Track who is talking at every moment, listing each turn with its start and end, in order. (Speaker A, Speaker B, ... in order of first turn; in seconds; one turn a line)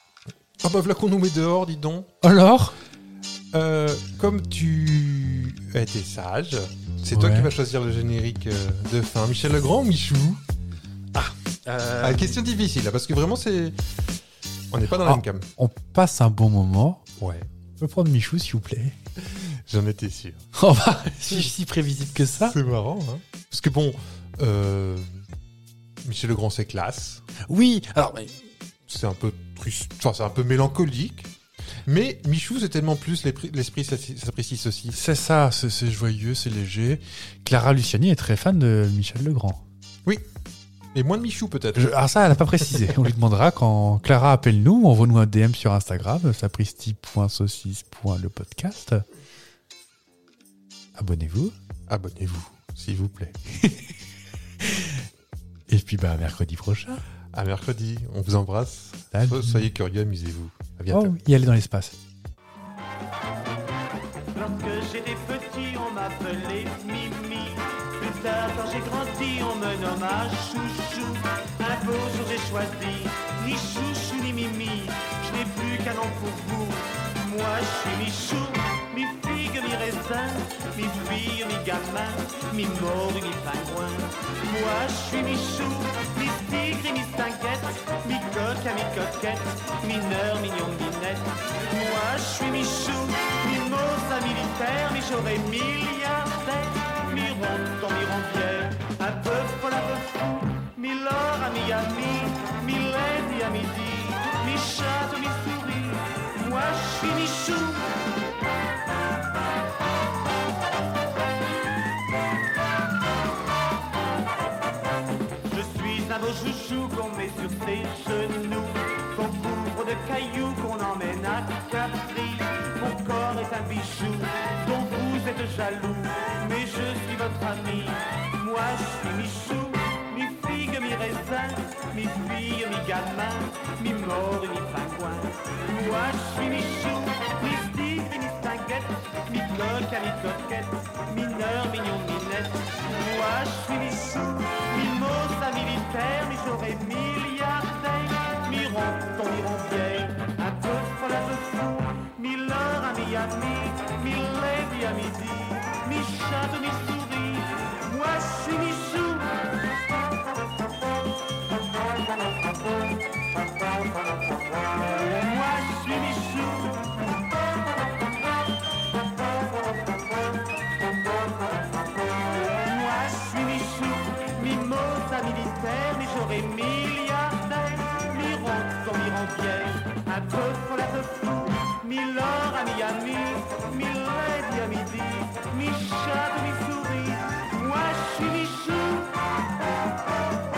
Speaker A: 0.6-2.1
Speaker B: 2.2-2.8
Speaker A: 3.5-10.4
Speaker B: 7.1-7.5
Speaker B: 11.1-12.3
Speaker A: 12.0-13.9
Speaker A: 14.7-15.5
Speaker B: 14.9-17.0
Speaker A: 17.2-17.5
Speaker B: 17.8-19.0
Speaker A: 19.2-20.5
Speaker B: 20.6-22.6
Speaker A: 22.4-25.2
Speaker A: 26.0-27.2
Speaker B: 27.4-28.3
Speaker A: 28.9-31.3
Speaker A: 31.9-35.0
Speaker B: 34.9-39.6
Speaker A: 40.9-42.0
Speaker B: 41.8-49.0
Speaker B: 51.0-51.5
Speaker A: 51.9-53.3
Speaker B: 53.5-54.0
Speaker B: 54.6-55.0
Speaker B: 55.7-57.0
Speaker A: 57.3-61.2
Speaker B: 59.1-59.7
Speaker B: 60.9-62.0
Speaker C: 64.3-107.9
Speaker C: 115.5-159.4
Speaker C: 165.0-167.0
Speaker C: 172.4-189.2